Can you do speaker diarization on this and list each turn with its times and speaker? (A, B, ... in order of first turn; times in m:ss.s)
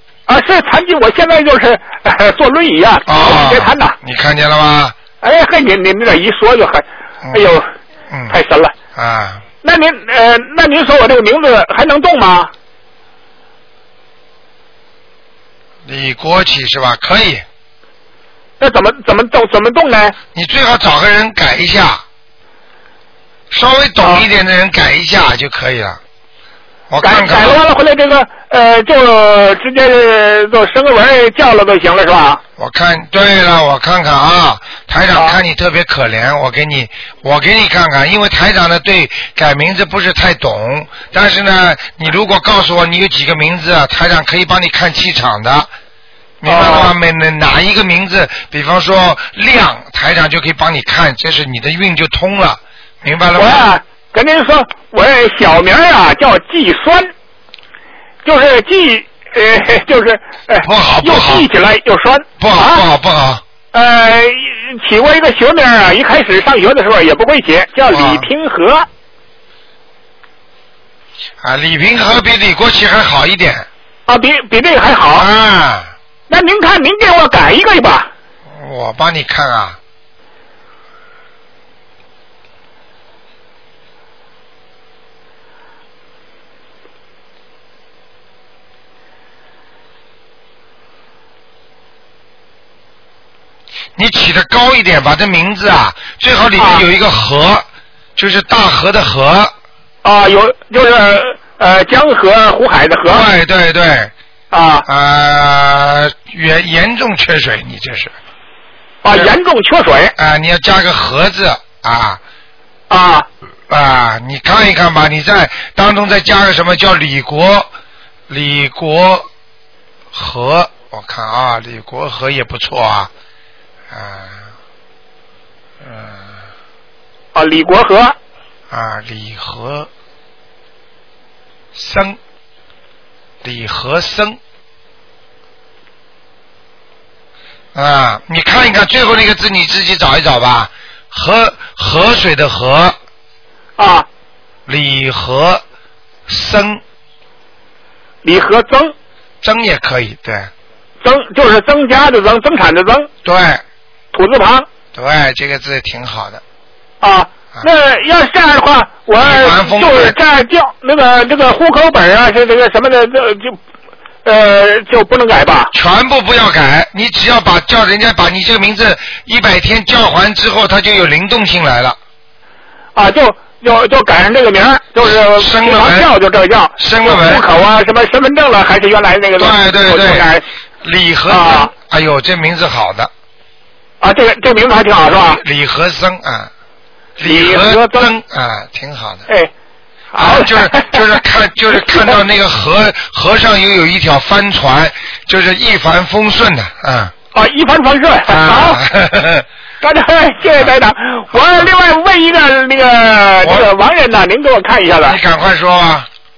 0:00.3-0:04.0 A
0:03.1-0:05.0 B
0:05.2-0:07.7 A
0:07.2-0:07.5 B
0:08.1-0:08.4 B
0:08.3-0:08.7 A
0:09.0-0:09.4 B
0:09.6-0:12.5 A
0:15.9-0:17.4 B
0:18.6-0:20.2 A
0:20.4-0:22.0 B
0:23.5-0:26.0 B
0:26.9-0:27.6 B
0:27.0-0:32.4 A
0:32.6-0:45.7 B
0:46.4-0:53.7 B
0:46.4-0:46.9 A
0:53.4-0:57.1 A
0:58.2-1:02.8 A
1:00.6-1:01.5 B
1:02.4-1:03.4 B
1:03.7-1:08.9 A
1:07.9-1:08.3 B
1:11.4-1:13.7 B
1:14.1-1:15.3 A
1:15.1-1:15.9 B
1:16.3-1:18.1 A
1:18.5-1:19.8 B
1:34.0-1:39.5 B
1:36.6-1:36.8 A
1:40.0-1:43.3 A
1:43.0-1:44.1 B
1:44.5-1:44.9 A
1:44.9-1:48.1 B
1:49.0-1:50.1 A
1:50.2-1:52.2 B
1:52.9-1:53.3 A
1:53.7-1:57.7 B
1:58.3-1:59.3 B
2:00.1-2:03.1 B
2:03.9-2:04.5 B
2:05.8-2:06.3 B
2:07.4-2:08.2 A
2:08.7-2:09.9 B
2:11.8-2:12.2 B
2:13.4-2:14.4 B
2:17.8-2:23.0 B
2:23.8-2:24.1 A
2:24.7-2:25.6 B
2:26.3-2:26.8 B
2:28.2-2:28.9 A
2:29.4-2:30.5 B
2:31.0-2:33.1 A
2:33.2-2:33.6 B
2:34.1-2:34.7 A
2:34.9-2:36.4 B
2:37.0-2:43.6 A
2:39.2-2:40.2 B
2:44.2-2:45.7 A
2:45.7-2:52.0 B
2:53.0-3:00.4 A
2:55.0-2:56.1 B
2:56.8-2:57.4 B
2:59.4-3:00.3 B
3:00.8-3:03.1 B
3:01.3-3:01.7 A
3:04.0-3:05.4 A
3:05.3-3:06.5 B
3:07.2-3:09.3 B
3:07.2-3:08.1 A
3:10.1-3:11.0 A
3:10.2-3:17.1 B
3:11.8-3:12.1 A
3:17.3-3:18.8 A
3:18.3-3:19.5 B
3:19.8-3:25.2 A
3:23.4-3:23.7 B
3:25.0-3:26.1 B